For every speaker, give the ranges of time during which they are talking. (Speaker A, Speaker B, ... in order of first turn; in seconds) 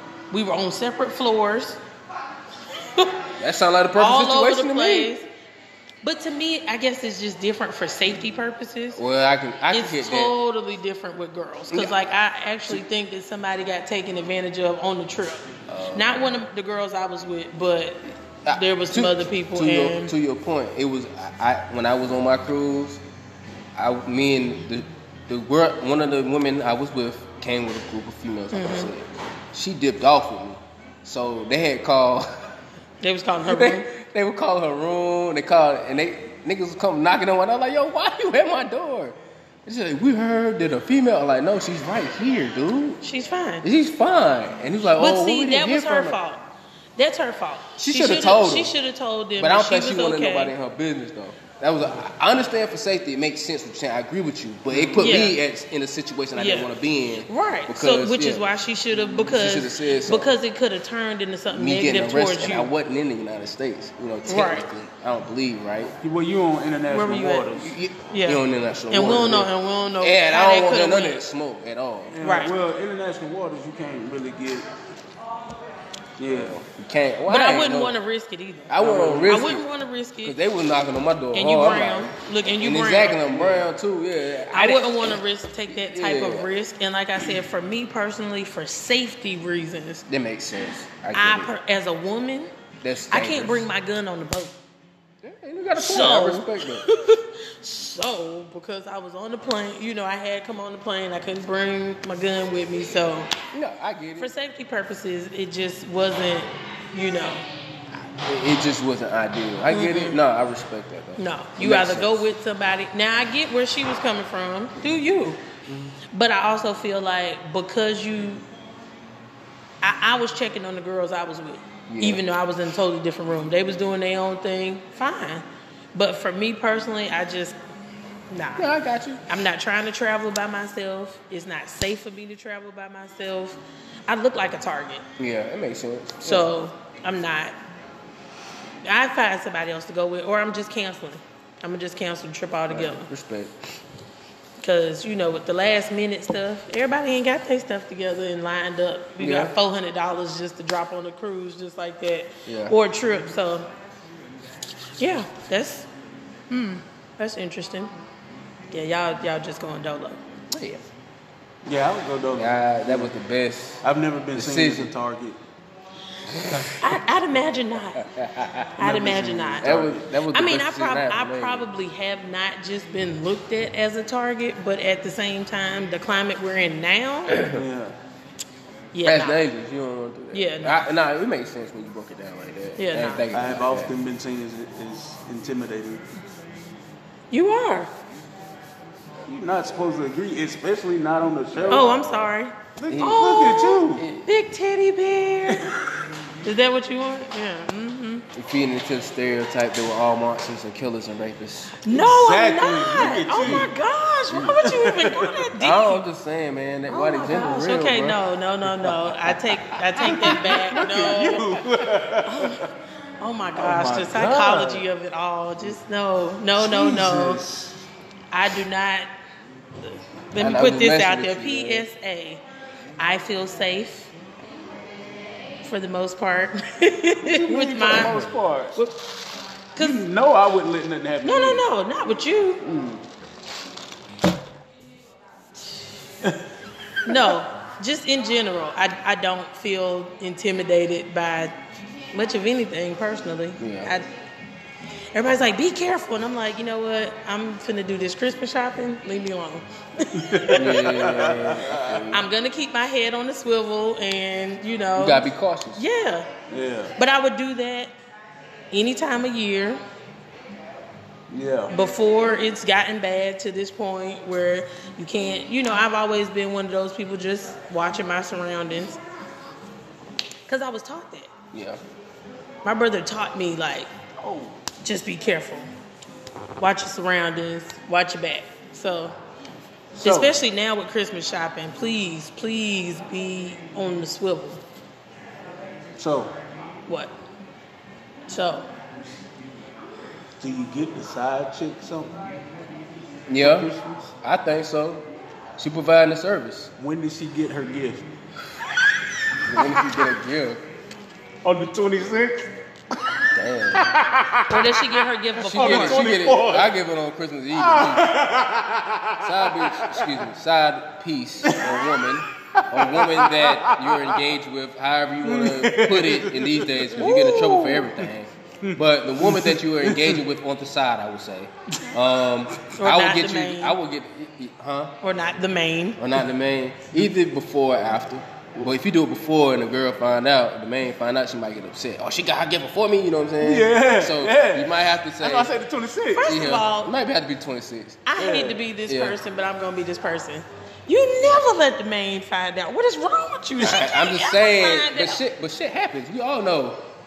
Speaker A: 0.3-1.8, 4.0-5.3, 6.0-9.0, 9.7-20.1, 28.5-28.9, 33.0-33.9, 43.0-43.7, 45.0-46.4, 47.0-50.5, 55.0-55.4, 56.4-56.7, 57.2-62.7, 64.3-64.7, 66.9-67.5, 68.1-71.2, 72.2-72.5, 77.3-80.4, 81.3-83.3, 84.5-90.0, 91.1-92.5, 93.1-94.6, 95.8-103.3, 104.2-107.5, 109.7-110.2, 111.2-115.4, 116.1-118.5, 119.8-127.6, 128.3-128.7, 129.3-135.0, 136.2-137.6, 138.8-143.1, 144.6-153.7, 155.0-155.9, 156.5-157.9, 158.7-160.2, 166.8-168.1, 168.8-177.5, 178.9-179.4, 180.3-180.8, 182.8-183.2, 187.3-187.9, 191.7-195.8, 196.4-198.3, 201.8-206.0, 206.9-211.5, 212.3-212.7, 213.2-217.4, 218.3-219.1, 219.9-222.4, 223.0-224.1, 225.6-229.0, 229.8-230.1, 231.2-232.6, 237.1-241.6, 242.1-244.1, 245.1-250.7, 252.1-255.2, 255.8-256.3, 257.0-257.9, 258.7-259.8, 261.7-269.0, 270.5-271.3, 272.6-273.9, 274.8-275.7, 276.6-279.1, 280.0-284.6, 286.9-287.1, 288.3-288.7, 304.5-306.1, 317.0-317.9, 322.8-323.8, 325.0-326.0, 336.1-336.9, 338.1-345.2
Speaker B: 3.4-5.1, 8.9-10.3, 11.7-12.0, 15.7-16.3, 18.4-23.0, 23.8-32.3, 33.5-43.0, 43.6-46.2, 47.8-48.8, 49.4-58.5, 59.1-60.3, 61.5-65.9, 67.6-72.2, 76.3-78.0, 78.7-79.7, 80.2-86.5, 90.1-91.5, 92.8-93.7, 95.2-96.9, 103.5-104.3, 107.9-112.3, 121.9-122.2, 128.6-129.2, 135.2-136.5, 142.7-143.6, 149.2-149.6, 152.5-152.8, 160.5-160.8, 162.3-163.8, 164.3-164.9, 168.0-168.7, 169.6-171.7, 177.3-177.6, 179.0-183.9, 191.5-192.3, 192.9-193.3, 193.9-194.3, 198.3-201.8, 203.4-203.7, 204.3-204.7, 205.6-208.2, 208.8-209.1, 220.4-221.9, 243.6-243.9, 250.5-252.2, 255.0-255.8, 271.5-271.8, 293.3-296.7, 299.4-300.6, 303.3-304.0, 305.4-308.2, 309.2-324.9, 326.0-335.5, 336.2-338.0, 338.9-339.2, 343.6-346.8
Speaker C: 54.7-55.0, 66.0-67.8, 72.1-74.7, 76.2-76.6, 78.8-79.4, 83.3-83.7, 161.7-163.1, 163.8-165.4, 168.8-170.1, 177.5-177.9, 183.3-186.0, 189.3-192.1, 192.8-194.1, 195.5-195.8, 201.9-203.7, 204.7-205.4, 210.0-212.6, 213.6-214.8, 216.6-217.8, 227.2-228.8, 229.8-231.7, 232.6-233.0, 250.1-252.1, 256.5-256.9, 261.3-261.7, 274.2-274.6, 280.0-280.3, 286.0-286.3, 290.4-292.2, 293.4-294.1, 296.8-298.1, 299.5-299.8, 301.4-302.5, 303.8-306.7, 307.6-310.2, 311.5-311.9, 312.6-314.3, 315.2-318.1, 318.6-320.2, 333.4-336.4, 338.2-338.6